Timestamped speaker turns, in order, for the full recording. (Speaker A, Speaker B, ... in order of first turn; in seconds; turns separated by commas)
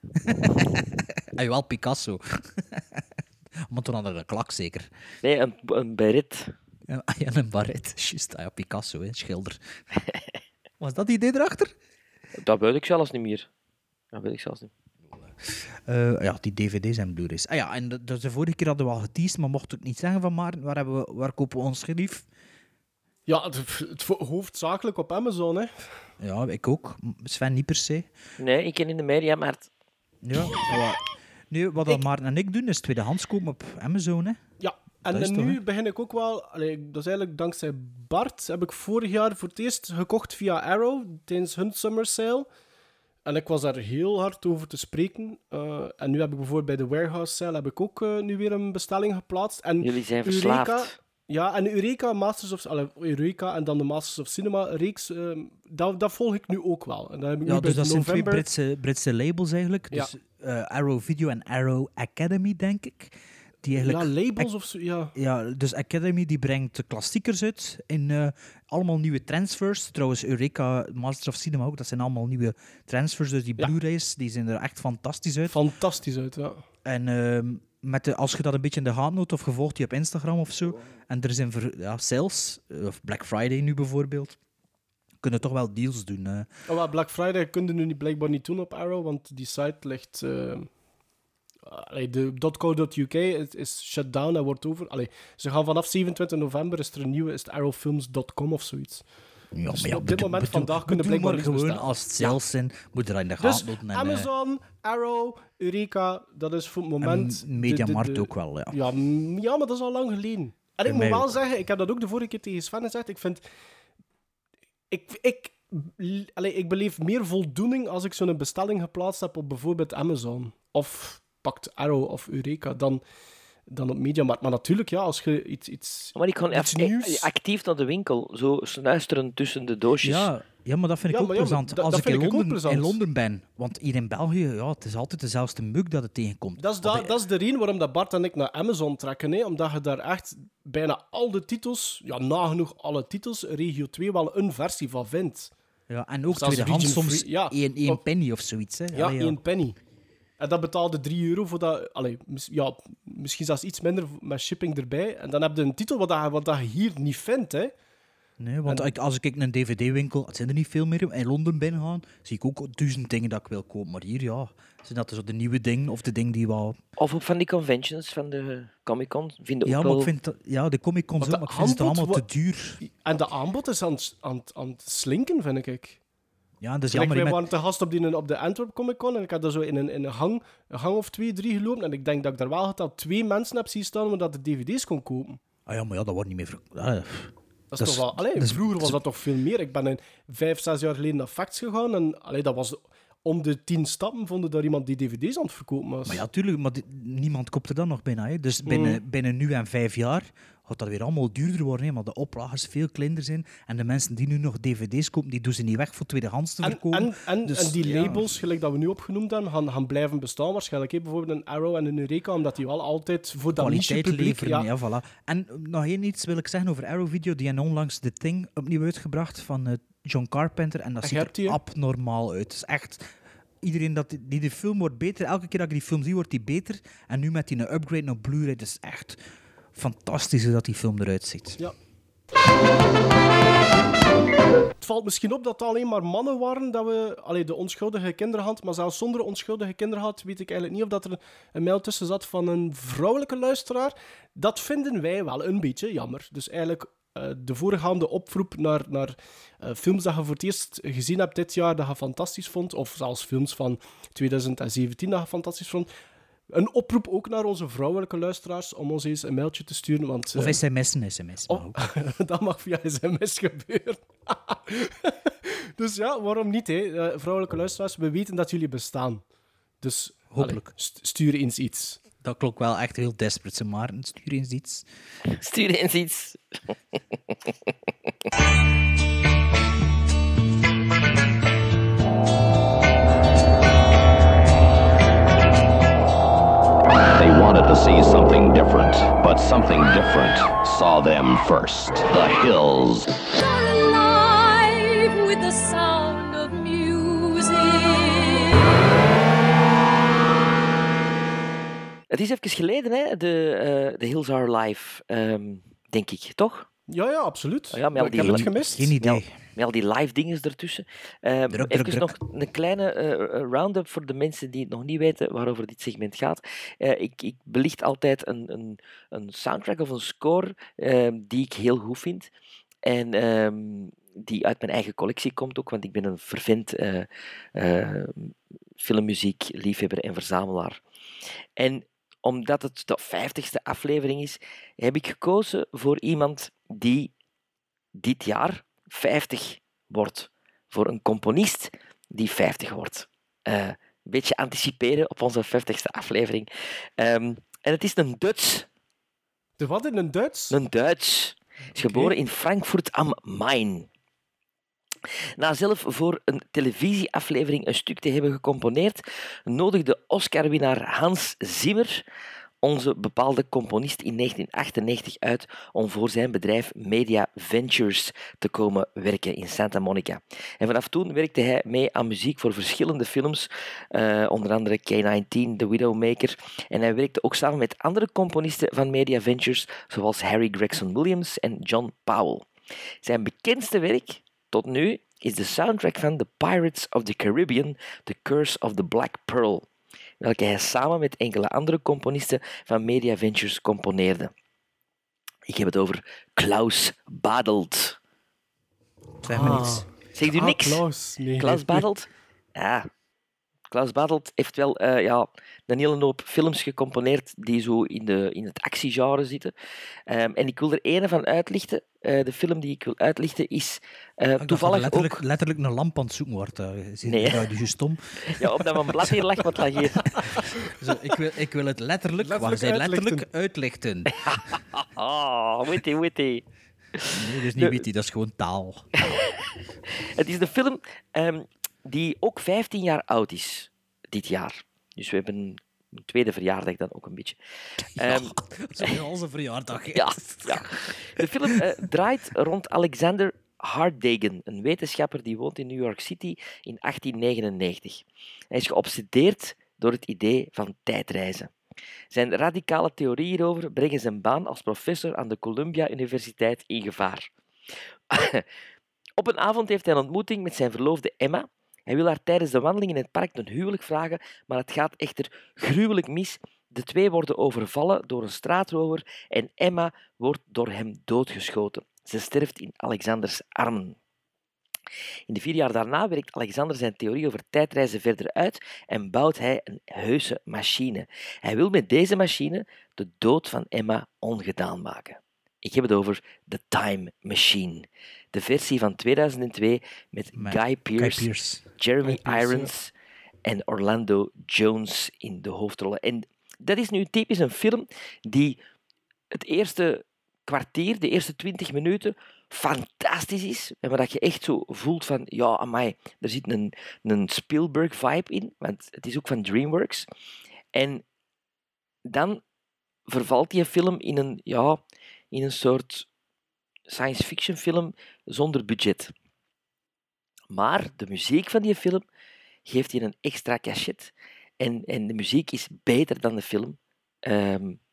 Speaker A: 0.2-3.0, Speaker A: 3.7-4.9, Speaker B: 5.2-6.5, Speaker A: 6.9-9.6, Speaker A: 10.8-11.7, Speaker B: 12.4-13.5, Speaker B: 14.1-14.7, Speaker A: 15.9-22.3, Speaker C: 23.3-25.7, Speaker A: 26.2-28.1, Speaker B: 28.4-29.7, Speaker A: 30.2-34.4, Speaker C: 34.6-42.5, Speaker A: 35.1-35.6, Speaker C: 43.2-58.5, Speaker B: 49.8-50.9, Speaker A: 57.5-64.5, Speaker C: 63.7-65.1, Speaker A: 65.2-75.6, Speaker C: 75.5-76.6, Speaker A: 76.8-84.4, Speaker A: 85.2-86.5, Speaker C: 86.7-90.7, Speaker C: 91.7-99.0, Speaker A: 99.5-104.3, Speaker C: 99.7-102.4, Speaker C: 103.4-113.4, Speaker A: 107.0-108.8, Speaker A: 110.8-111.4, Speaker C: 114.9-123.0, Speaker C: 123.7-127.3, Speaker B: 126.2-130.3, Speaker A: 130.0-137.2, Speaker C: 131.1-133.0, Speaker C: 136.6-145.5, Speaker A: 145.9-149.4, Speaker C: 146.3-148.0, Speaker C: 148.9-149.8, Speaker C: 150.4-157.7, Speaker A: 158.4-166.8, Speaker B: 167.0-170.1, Speaker A: 169.7-172.8, Speaker C: 171.2-172.2, Speaker C: 172.8-176.0, Speaker A: 176.6-177.4, Speaker C: 176.9-185.4, Speaker A: 185.7-189.0, Speaker C: 187.7-196.2, Speaker A: 196.1-208.3, Speaker C: 198.7-199.0, Speaker C: 206.6-214.7, Speaker A: 213.6-223.1, Speaker C: 221.0-221.6, Speaker A: 223.6-229.2, Speaker A: 229.8-231.6, Speaker C: 234.8-255.9, Speaker C: 256.5-260.6, Speaker A: 260.3-261.8, Speaker C: 261.5-269.2, Speaker C: 269.8-272.0, Speaker A: 270.3-270.7, Speaker A: 272.2-274.9, Speaker B: 275.3-276.4, Speaker D: 287.1-293.1, Speaker E: 293.2-298.7, Speaker B: 302.1-306.7, Speaker C: 306.9-308.9, Speaker B: 307.7-322.3, Speaker A: 308.1-309.4, Speaker A: 311.5-312.2, Speaker B: 322.9-330.8, Speaker B: 331.6-337.1, Speaker B: 337.9-348.7, Speaker C: 349.6-350.6, Speaker B: 350.5-353.9, Speaker C: 351.8-352.1, Speaker B: 355.4-362.0, Speaker B: 362.6-382.5, Speaker B: 383.0-389.7, Speaker B: 390.2-394.3, Speaker B: 395.5-398.0, Speaker A: 399.2-399.9, Speaker C: 399.3-401.9, Speaker B: 400.1-400.8, Speaker B: 401.4-402.9, Speaker B: 403.7-409.5, Speaker B: 410.1-415.2, Speaker A: 414.4-419.2, Speaker B: 417.1-417.5, Speaker B: 418.2-420.1, Speaker A: 420.1-424.1, Speaker C: 422.2-423.3, Speaker B: 424.1-427.8, Speaker A: 427.1-428.9, Speaker B: 430.1-437.4, Speaker B: 438.0-439.0, Speaker A: 438.0-441.6, Speaker B: 439.9-451.5, Speaker B: 452.1-457.3, Speaker B: 458.1-458.4, Speaker B: 459.2-474.0, Speaker B: 475.3-492.9, Speaker A: 490.4-491.6, Speaker C: 492.0-492.7, Speaker B: 493.4-498.6, Speaker B: 499.3-510.1, Speaker B: 510.7-511.0, Speaker B: 512.1-512.4, Speaker B: 513.1-514.8, Speaker B: 515.3-516.1, Speaker B: 516.9-519.1, Speaker B: 520.5-522.0, Speaker B: 522.7-527.8